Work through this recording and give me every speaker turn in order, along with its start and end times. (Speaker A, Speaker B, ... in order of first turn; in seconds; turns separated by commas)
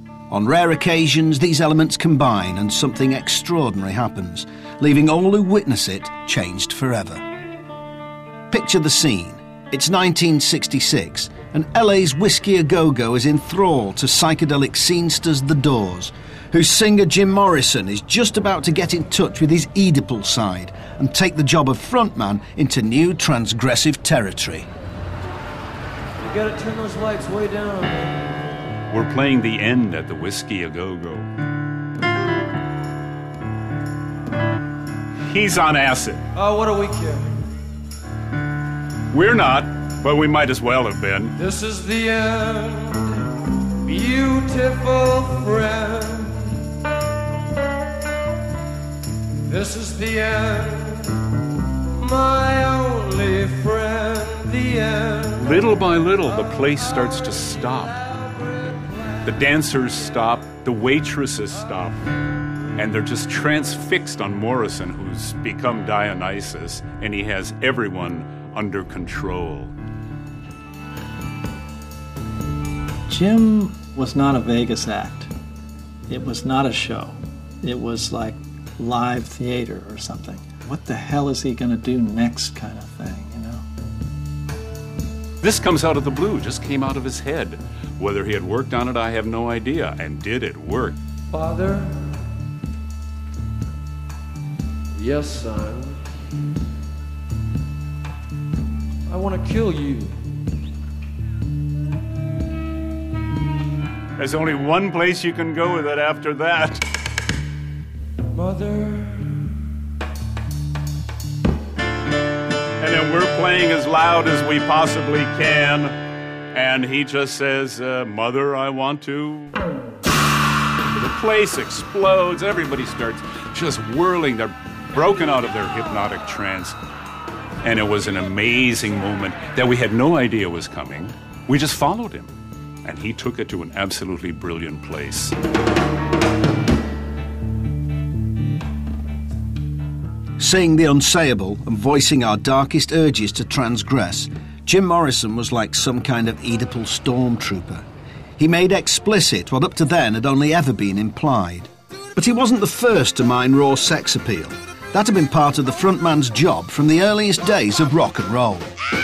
Speaker A: 0.3-7.2, Speaker A: 8.5-24.7, Speaker B: 26.2-28.6, Speaker C: 28.9-31.3, Speaker C: 35.3-36.3, Speaker B: 36.3-37.4, Speaker C: 39.1-41.4, Speaker B: 41.4-46.6, Speaker B: 49.5-51.3, Speaker B: 51.9-55.5, Speaker C: 55.4-58.0, Speaker B: 58.0-59.1, Speaker C: 59.2-62.0, Speaker C: 62.8-69.8, Speaker D: 73.1-75.3, Speaker D: 76.1-83.7, Speaker C: 85.4-91.0, Speaker B: 91.3-92.0, Speaker B: 95.0-96.0, Speaker B: 99.1-100.2, Speaker C: 104.2-106.8, Speaker B: 108.3-109.6, Speaker C: 112.8-116.0, Speaker C: 116.5-119.6, Speaker C: 120.9-126.8, Speaker C: 127.6-132.3, Speaker C: 132.8-135.3, Speaker A: 140.4-147.8, Speaker A: 148.4-158.7